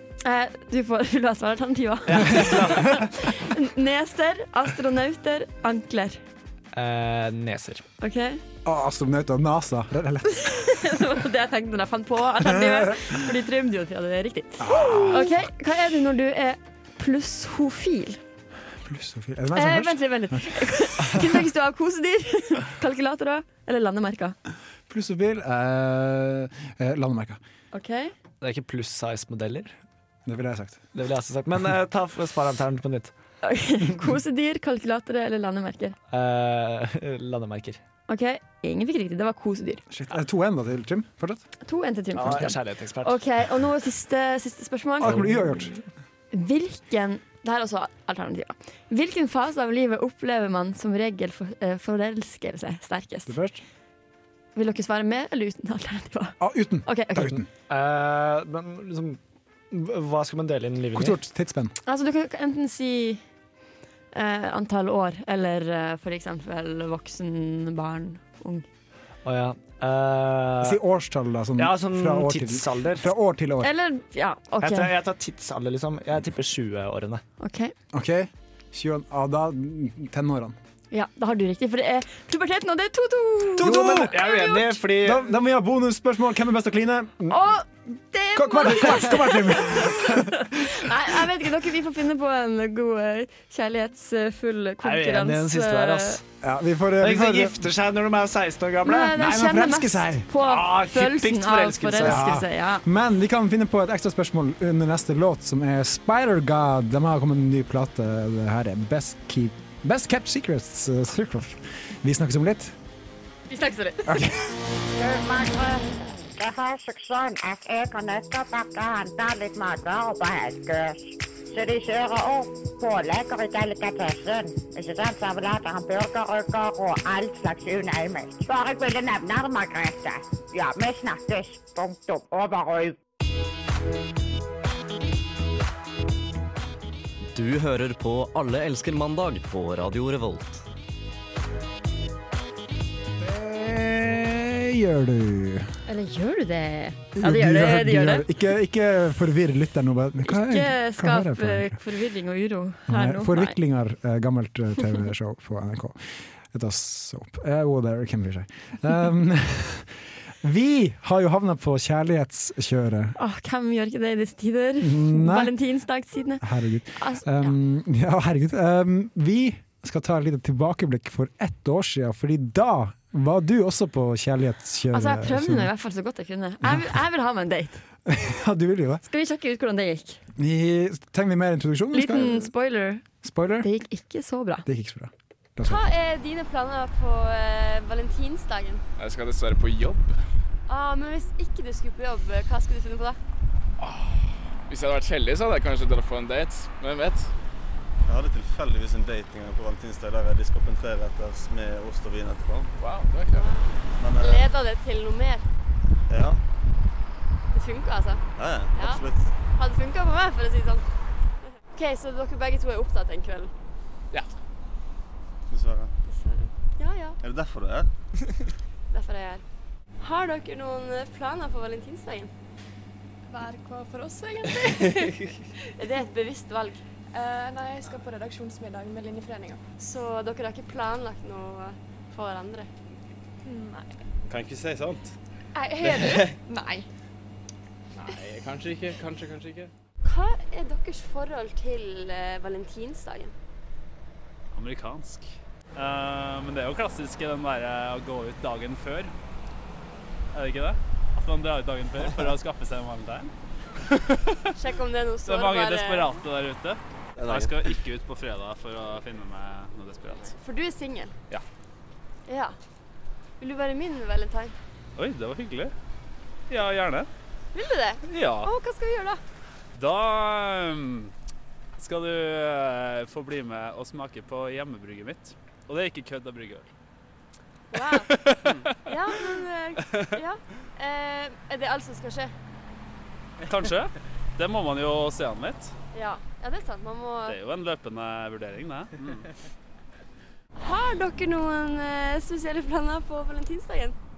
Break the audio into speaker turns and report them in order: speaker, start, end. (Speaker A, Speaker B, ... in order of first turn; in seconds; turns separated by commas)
Speaker A: 0.2-6.2, Speaker B: 2.1-3.1, Speaker B: 6.7-7.8, Speaker A: 8.0-8.4, Speaker C: 8.6-10.5, Speaker A: 10.3-18.2, Speaker C: 12.4-13.2, Speaker C: 14.6-15.3, Speaker C: 18.8-20.6, Speaker A: 19.5-24.4, Speaker C: 24.9-27.4, Speaker A: 27.7-28.1, Speaker B: 28.4-29.7, Speaker C: 30.2-30.8, Speaker B: 30.9-33.1, Speaker A: 33.4-36.0, Speaker B: 36.1-37.8, Speaker A: 38.1-39.8, Speaker C: 39.9-41.4, Speaker A: 41.6-45.4, Speaker B: 42.1-43.2, Speaker C: 45.0-45.8, Speaker A: 46.3-53.4, Speaker C: 53.3-53.6, Speaker A: 54.5-57.4, Speaker C: 56.4-57.5, Speaker B: 57.7-59.2, Speaker B: 59.7-61.2, Speaker C: 60.9-61.7, Speaker A: 61.8-63.2, Speaker A: 64.1-68.7, Speaker B: 69.2-70.8, Speaker C: 70.6-73.7, Speaker B: 71.6-73.1, Speaker A: 73.6-74.9, Speaker B: 74.6-77.2, Speaker A: 77.4-77.7, Speaker C: 77.9-80.5, Speaker A: 80.9-84.8, Speaker C: 83.6-84.2, Speaker B: 83.6-85.3, Speaker C: 84.9-87.5, Speaker A: 87.3-96.2, Speaker C: 88.3-90.7, Speaker B: 94.8-96.2, Speaker C: 96.4-97.7, Speaker B: 97.0-99.2, Speaker A: 98.8-102.8, Speaker C: 99.1-100.3, Speaker B: 100.3-102.3, Speaker C: 102.0-112.7, Speaker A: 113.5-114.0, Speaker C: 114.0-114.5, Speaker D: 114.9-133.0, Speaker E: 137.3-140.6, Speaker C: 143.2-145.7, Speaker A: 145.8-148.3, Speaker C: 147.2-151.8, Speaker A: 150.3-153.6, Speaker C: 152.9-163.2, Speaker A: 163.2-167.5, Speaker C: 164.8-165.6, Speaker C: 166.4-175.7, Speaker A: 174.9-177.8, Speaker C: 176.6-176.9, Speaker C: 178.1-179.0, Speaker A: 179.1-180.2, Speaker C: 180.3-182.5, Speaker A: 181.9-183.1, Speaker C: 183.2-183.7, Speaker A: 183.6-184.7, Speaker C: 184.7-185.9, Speaker F: 185.6-188.8, Speaker G: 189.0-190.2, Speaker F: 190.7-193.2, Speaker G: 193.8-197.3, Speaker H: 198.1-202.7, Speaker G: 202.8-203.5, Speaker F: 203.3-205.4, Speaker H: 204.0-204.5, Speaker H: 206.1-206.4, Speaker F: 207.5-208.2, Speaker H: 208.4-209.3, Speaker F: 208.7-209.0, Speaker F: 209.6-210.8, Speaker F: 211.7-213.5, Speaker H: 215.5-215.9, Speaker F: 216.1-217.2, Speaker H: 217.2-217.9, Speaker F: 218.9-219.4, Speaker F: 220.0-222.3, Speaker I: 223.3-225.1, Speaker F: 225.8-226.8, Speaker I: 227.1-229.6, Speaker F: 229.8-232.7, Speaker I: 233.4-233.9, Speaker H: 234.3-235.1, Speaker I: 235.5-236.8, Speaker G: 238.0-239.7, Speaker F: 240.0-243.3, Speaker J: 244.5-249.1, Speaker J: 250.3-253.3, Speaker J: 253.9-254.4, Speaker F: 254.6-256.2, Speaker J: 255.2-260.3, Speaker H: 257.2-257.5, Speaker F: 260.2-261.1, Speaker F: 262.3-262.6, Speaker F: 263.4-264.5, Speaker J: 264.9-265.7, Speaker J: 266.5-267.1, Speaker F: 267.5-269.2, Speaker J: 268.1-268.5, Speaker J: 269.7-271.1, Speaker J: 271.8-276.7, Speaker F: 277.7-282.3, Speaker J: 277.8-278.9, Speaker J: 283.4-285.7, Speaker F: 285.9-287.4, Speaker J: 287.3-289.3, Speaker F: 290.6-293.9